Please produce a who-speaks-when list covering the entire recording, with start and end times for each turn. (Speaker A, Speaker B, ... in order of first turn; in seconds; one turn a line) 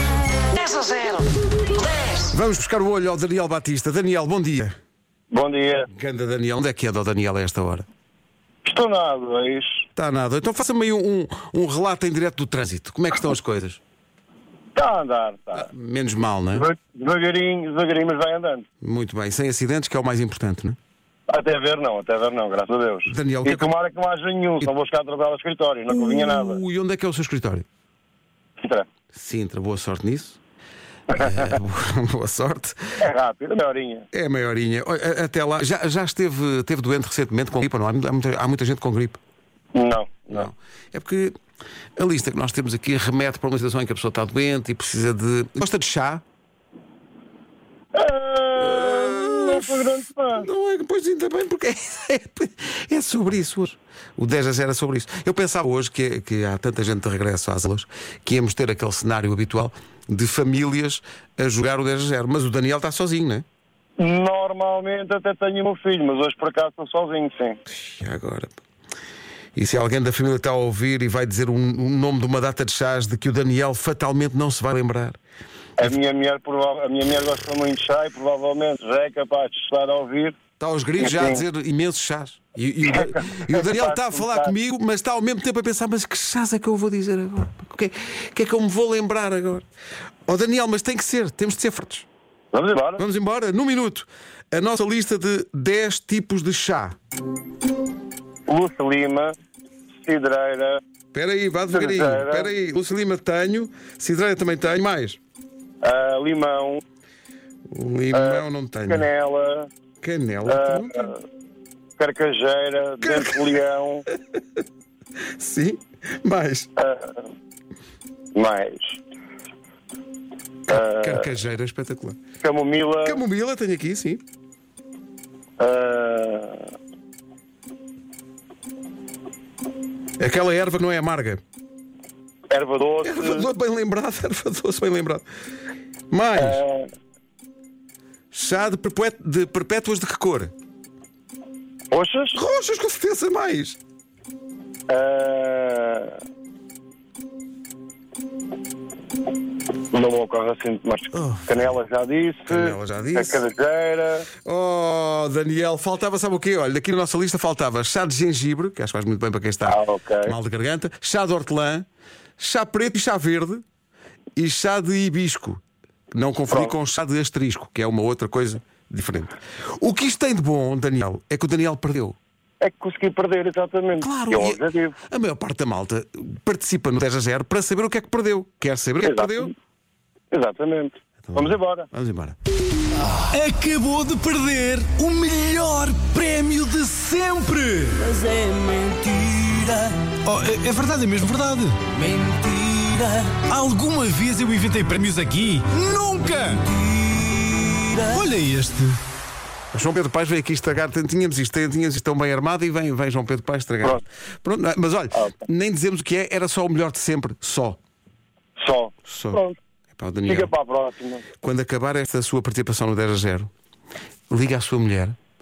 Speaker A: 0.5-2.3
Speaker B: 2.3-4.7
Speaker C: 5.3-5.9
Speaker B: 5.9-7.8
Speaker C: 8.6-9.8
Speaker B: 9.9-13.8
Speaker C: 14.7-15.7
Speaker B: 15.5-16.7
Speaker C: 16.5-18.6
Speaker B: 18.8-20.8
Speaker C: 21.3-26.6
Speaker B: 23.1-23.7
Speaker B: 25.9-27.6
Speaker C: 28.6-28.9
Speaker B: 29.1-30.4
Speaker C: 31.1-31.5
Speaker B: 31.1-32.8
Speaker C: 33.0-34.1
Speaker B: 34.1-39.2
Speaker C: 39.7-40.5
Speaker B: 40.3-41.3
Speaker B: 42.0-46.2
Speaker C: 47.9-50.5
Speaker B: 48.6-63.4
Speaker C: 64.0-67.6
Speaker B: 67.7-68.6
Speaker B: 69.5-75.2
Speaker C: 75.8-80.4
Speaker B: 80.6-89.7
Speaker C: 81.0-81.4
Speaker C: 82.8-84.5
Speaker B: 90.2-92.0
Speaker C: 92.5-93.0
Speaker B: 93.0-97.0
Speaker C: 98.5-99.3
Speaker C: 100.0-100.8
Speaker B: 101.1-105.2
Speaker C: 101.7-102.5
Speaker C: 105.8-106.8
Speaker B: 107.7-109.0
Speaker C: 108.1-109.7
Speaker B: 110.0-111.1
Speaker C: 110.5-111.2
Speaker C: 112.0-114.0
Speaker B: 115.4-116.7
Speaker C: 116.8-117.3
Speaker C: 118.3-119.0
Speaker C: 120.7-121.3
Speaker B: 120.7-122.2
Speaker C: 122.4-123.2
Speaker B: 123.0-124.2
Speaker C: 125.6-126.7
Speaker B: 130.2-131.4
Speaker C: 132.5-133.5
Speaker B: 133.0-135.2
Speaker B: 136.1-136.6
Speaker C: 136.3-136.9
Speaker B: 138.3-140.5
Speaker C: 141.9-142.4
Speaker B: 142.3-143.8
Speaker C: 144.9-146.2
Speaker C: 149.9-154.3
Speaker B: 151.1-151.8
Speaker B: 152.5-153.4
Speaker B: 154.4-161.8
Speaker C: 159.7-160.3
Speaker B: 162.4-163.6
Speaker B: 164.3-165.6
Speaker B: 166.1-172.2
Speaker C: 166.5-166.7
Speaker C: 172.6-174.9
Speaker B: 174.0-179.5
Speaker C: 179.0-179.5
Speaker C: 180.3-181.9
Speaker B: 181.3-182.3
Speaker D: 183.3-197.0
Speaker A: 188.3-189.8
Speaker A: 197.0-198.0
Speaker D: 197.9-199.0
Speaker B: 199.7-207.8
Speaker C: 208.6-209.6
Speaker B: 209.1-209.4
Speaker B: 209.9-210.5
Speaker C: 210.2-211.2
Speaker B: 211.4-213.5
Speaker B: 214.3-215.2